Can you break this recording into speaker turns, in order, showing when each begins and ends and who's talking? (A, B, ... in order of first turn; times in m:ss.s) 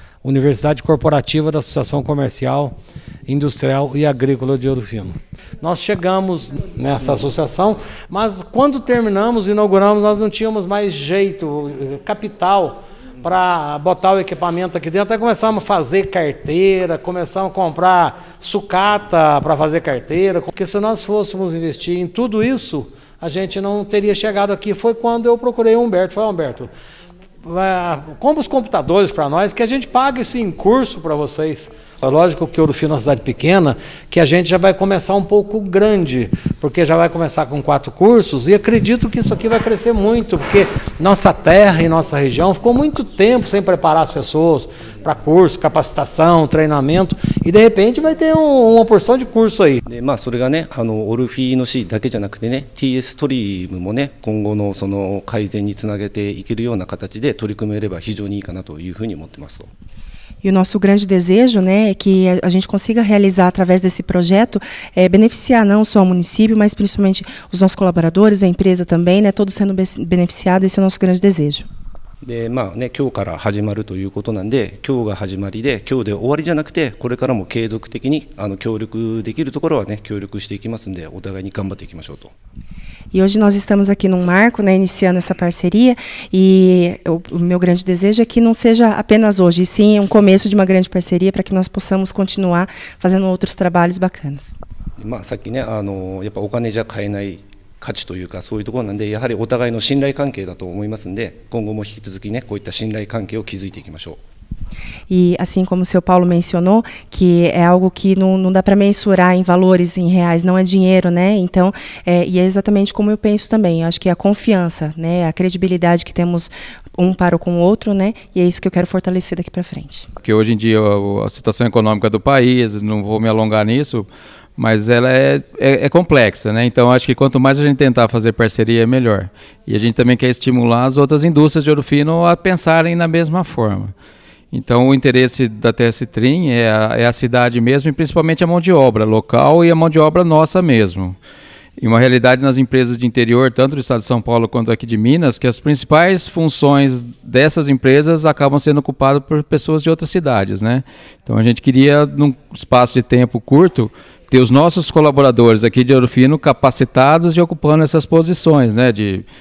0:00.2-0:02.7 A
0:03.3-0:26.7 A
0:27.4-0:49.8 A
0:49.8-0:59.7 B
1:00.4-1:11.7 C
1:12.2-1:22.3 B
1:23.1-1:34.5 C
1:35.0-1:44.2 B
1:45.1-2:00.1 C
2:00.2-2:13.9 D
2:14.5-2:21.2 D
2:21.8-2:39.2 D